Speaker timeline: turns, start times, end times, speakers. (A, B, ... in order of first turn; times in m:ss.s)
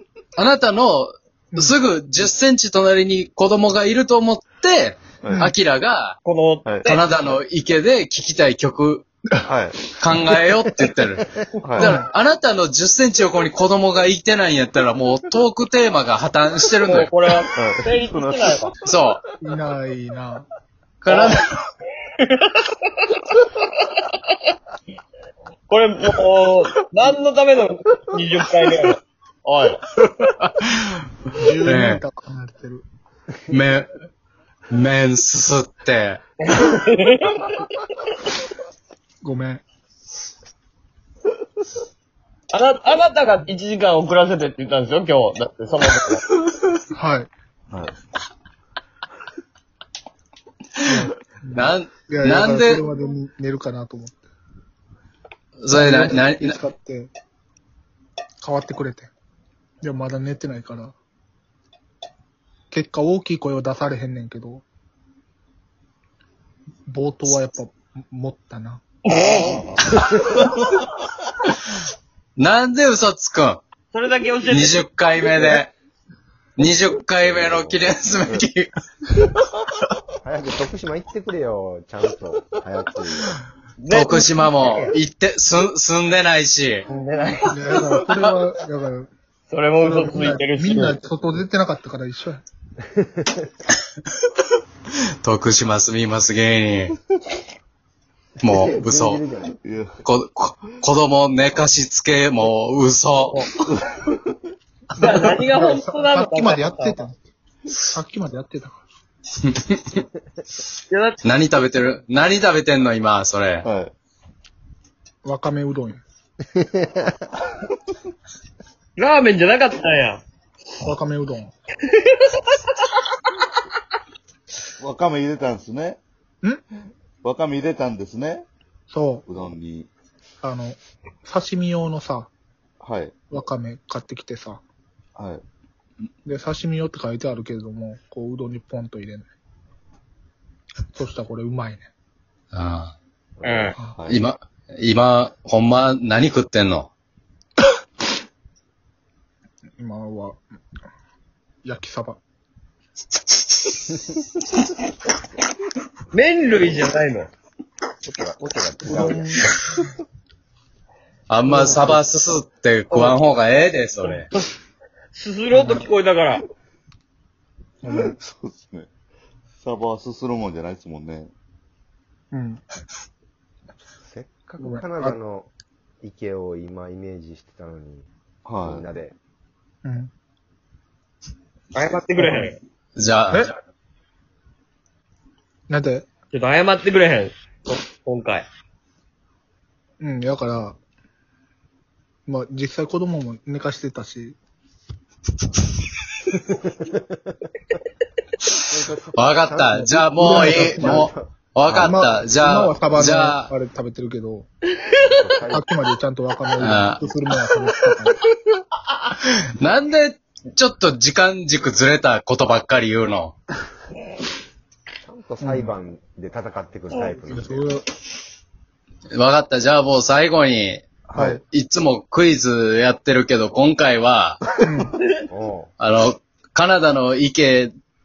0:00.4-0:06.2 A
0:05.2-0:05.5 B
0:06.2-0:07.0 C
0:06.6-0:06.9 B
0:06.8-0:09.1 A
0:09.4-0:09.9 B
0:09.9-0:11.2 A
0:11.6-0:11.9 B
0:11.8-0:17.1 A
0:11.8-0:12.0 D
0:16.8-0:18.7 C
0:17.6-0:18.7 B
0:18.8-0:19.2 A
0:19.4-0:20.5 D
0:21.0-0:21.6 A
0:21.1-0:21.4 C
0:22.2-0:24.2 C
0:25.7-0:29.8 C
0:30.0-0:32.0 A
0:31.3-0:32.8 D
0:33.5-0:33.8 A
0:34.7-0:36.2 A
0:36.4-0:37.6 C
0:39.2-0:39.6 D
0:42.5-0:46.3 C
0:46.9-0:47.3 D
0:47.7-0:48.0 B
0:50.8-0:54.2 D
0:51.5-0:52.8 A
0:55.6-0:56.6 A
0:55.7-0:57.1 D
0:58.4-0:59.1 D
0:59.8-1:01.0 D
1:02.7-1:04.6 D
1:06.9-1:08.8 D
1:12.4-1:13.6 A
1:13.9-1:14.8 C
1:14.5-1:15.7 A
1:16.6-1:19.3 A
1:20.2-1:23.3 E
1:23.8-1:24.9 C
1:23.9-1:26.8 A
1:26.9-1:27.9 C
1:27.5-1:29.1 D
1:29.5-1:31.0 C
1:29.8-1:32.4 D
1:32.9-1:33.5 E
1:35.2-1:37.0 A
1:38.4-1:39.2 A
1:38.4-1:39.6 E
1:39.6-1:39.9 B
1:40.0-1:43.4 A
1:43.7-1:44.2 B
1:44.9-1:47.2 D
1:45.0-1:47.0 C
1:47.8-1:48.8 D
1:49.4-1:50.0 A
1:50.9-1:51.2 C
1:51.2-1:53.6 A
1:53.6-1:53.9 B
1:55.2-1:56.0 D
1:56.6-1:57.2 E
1:59.0-2:00.2 C
2:00.8-2:01.5 D
2:01.9-2:02.9 C
2:04.8-2:06.0 B
2:07.2-2:08.5 B
2:08.9-2:09.2 D
2:09.3-2:09.9 B
2:10.4-2:12.3 D
2:12.8-2:13.1 B
2:13.3-2:14.6 D
2:15.2-2:15.4 B
2:16.2-2:19.3 D
2:20.9-2:21.9 D
2:22.5-2:22.9 A
2:23.4-2:23.7 E
2:23.4-2:23.8 C
2:23.9-2:24.2 B
2:24.1-2:26.9 A
2:29.8-2:30.4 D
2:31.6-2:32.2 D
2:36.1-2:37.3 C
2:38.0-2:39.5 E
2:38.9-2:39.6 D
2:41.3-2:44.3 A
2:41.5-2:42.0 C
2:42.9-2:43.2 C
2:44.0-2:44.5 C
2:45.1-2:46.4 C
2:45.5-2:45.8 D
2:47.8-2:48.1 D
2:47.9-2:48.9 B
2:49.6-2:51.3 B
2:52.3-2:52.6 D
2:54.0-2:55.5 E
2:54.6-2:55.2 D
2:56.0-2:58.1 E
2:58.4-2:58.8 B
2:58.6-2:59.2 E
2:59.8-3:00.1 D
3:01.7-3:02.6 C
3:02.2-3:02.5 D
3:03.0-3:03.5 A
3:05.7-3:06.1 D
3:06.3-3:08.4 C
3:10.0-3:10.8 D
3:12.2-3:14.4 D
3:18.7-3:21.8 E
3:19.1-3:23.5 A
3:19.8-3:21.1 D
3:21.7-3:24.5 D
3:25.0-3:25.7 E
3:25.5-3:28.2 D
3:26.6-3:27.0 A
3:29.1-3:33.4 A
3:35.0-3:37.7 E
3:35.4-3:35.7 D
3:37.3-3:37.9 D
3:39.1-3:44.4 A
3:41.1-3:41.4 B
3:41.2-3:41.4 D
3:44.6-3:45.0 D
3:45.3-3:45.7 E
3:45.8-3:47.7 A